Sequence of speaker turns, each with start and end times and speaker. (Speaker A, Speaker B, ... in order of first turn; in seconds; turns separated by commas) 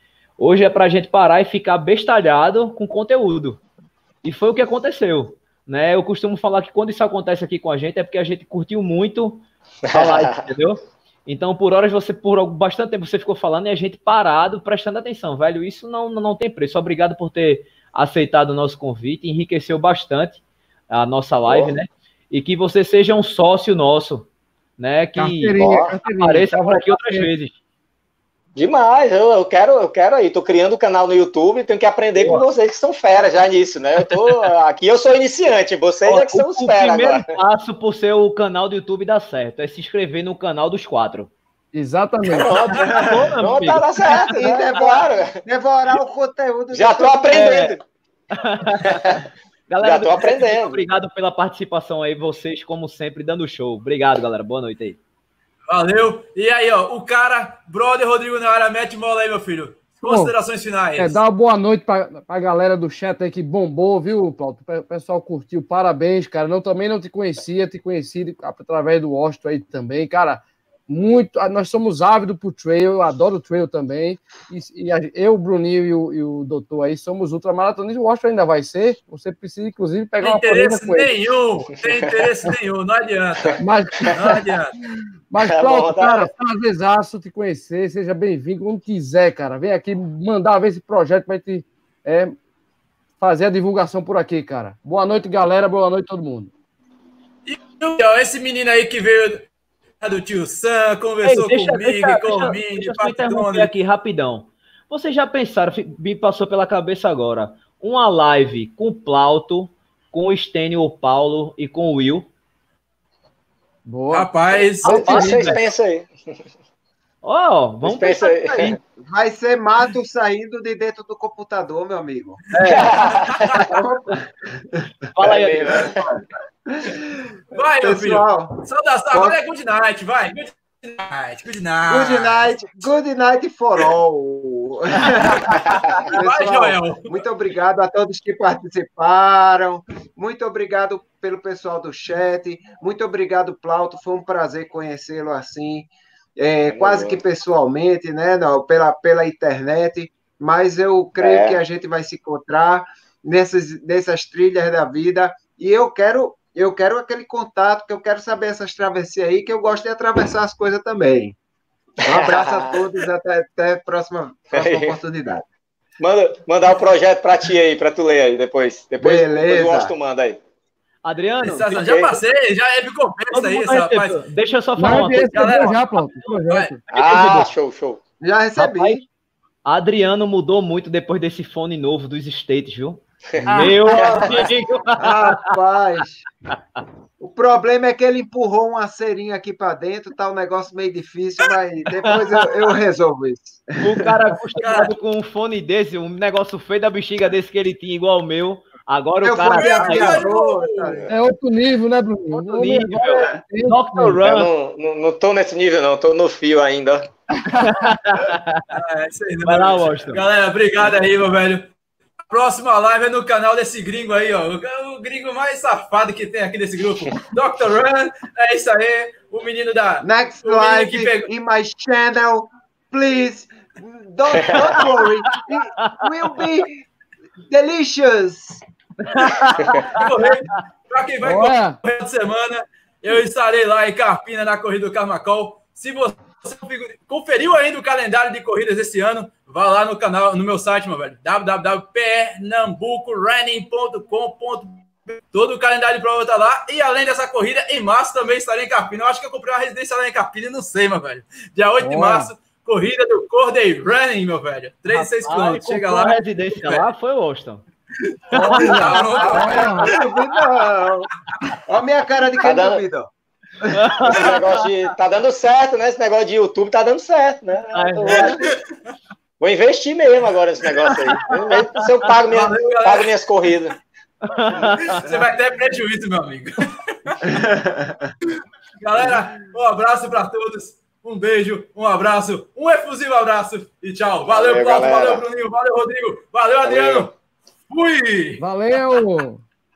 Speaker A: 0.4-3.6, Speaker A: 4.2-27.6, Speaker B: 9.8-10.5, Speaker B: 21.5-21.8, Speaker C: 25.2-27.3, Speaker B: 25.6-26.0, Speaker B: 28.6-37.4, Speaker A: 36.0-41.3, Speaker C: 41.7-42.7, Speaker D: 42.3-43.1, Speaker B: 42.4-45.4, Speaker A: 42.7-44.3, Speaker E: 44.3-47.6, Speaker B: 46.7-47.8, Speaker A: 47.3-47.7, Speaker A: 48.3-55.0, Speaker B: 48.9-49.2, Speaker B: 49.8-50.9, Speaker D: 55.7-61.2, Speaker C: 60.0-60.4, Speaker C: 61.0-81.1, Speaker D: 80.2-84.8, Speaker C: 83.6-84.5, Speaker C: 85.3-92.4, Speaker B: 85.4-86.3, Speaker C: 93.2-96.5, Speaker D: 97.5-99.5, Speaker D: 100.0-103.7, Speaker A: 101.2-112.3, Speaker C: 113.9-114.3, Speaker D: 114.1-115.6, Speaker A: 114.8-115.6, Speaker C: 114.8-115.5, Speaker B: 114.8-116.1, Speaker A: 117.2-118.8, Speaker B: 117.8-118.8, Speaker E: 119.0-122.4, Speaker A: 122.5-123.2, Speaker B: 122.6-123.6, Speaker D: 123.0-123.7, Speaker E: 123.6-124.9, Speaker A: 125.2-126.0, Speaker B: 125.2-126.1, Speaker E: 125.7-127.2, Speaker D: 127.5-132.6, Speaker E: 127.8-128.6, Speaker E: 129.1-129.4, Speaker E: 131.9-161.4, Speaker D: 135.0-137.1, Speaker B: 146.7-147.2, Speaker B: 151.2-151.6, Speaker E: 162.0-165.4, Speaker B: 162.1-162.8, Speaker B: 164.5-165.0, Speaker B: 166.0-170.4, Speaker E: 169.0-169.9, Speaker A: 171.1-171.8, Speaker D: 171.4-174.2, Speaker B: 171.8-172.2, Speaker A: 173.3-176.1, Speaker C: 174.8-176.8, Speaker D: 175.3-175.8, Speaker D: 176.5-176.7, Speaker A: 176.9-177.5, Speaker B: 176.9-178.0, Speaker E: 178.2-179.1, Speaker A: 178.6-179.0, Speaker A: 179.7-185.5, Speaker B: 183.4-184.5, Speaker C: 183.4-184.3, Speaker E: 185.0-186.2, Speaker E: 187.2-194.1, Speaker A: 191.9-192.6, Speaker A: 193.8-200.3, Speaker D: 194.3-194.9, Speaker E: 199.2-201.1, Speaker D: 199.5-201.0, Speaker C: 201.1-204.2, Speaker A: 202.3-204.5, Speaker B: 204.2-207.1, Speaker A: 207.4-208.7, Speaker D: 208.7-211.7, Speaker A: 209.4-210.2, Speaker D: 212.3-221.3, Speaker E: 220.0-226.9, Speaker B: 224.3-224.8, Speaker A: 224.8-226.5, Speaker E: 227.5-228.6, Speaker A: 229.1-230.6, Speaker D: 229.2-256.9, Speaker B: 229.6-229.8, Speaker C: 231.2-231.8, Speaker C: 251.8-252.3, Speaker A: 254.9-257.6, Speaker D: 258.1-260.0, Speaker C: 258.3-259.9, Speaker A: 258.3-260.1, Speaker B: 259.2-259.9, Speaker E: 259.8-261.1, Speaker E: 261.6-264.0, Speaker B: 262.4-262.8, Speaker A: 263.7-264.6, Speaker B: 264.1-268.5, Speaker A: 267.7-268.5, Speaker D: 268.1-268.6, Speaker B: 269.4-273.8, Speaker D: 270.9-271.2, Speaker D: 272.3-273.1, Speaker A: 274.2-275.1, Speaker D: 274.9-276.5, Speaker D: 277.1-277.4, Speaker E: 277.2-278.1, Speaker D: 278.8-287.1, Speaker B: 284.3-285.2, Speaker B: 286.6-287.1, Speaker D: 287.7-288.4, Speaker C: 288.4-289.4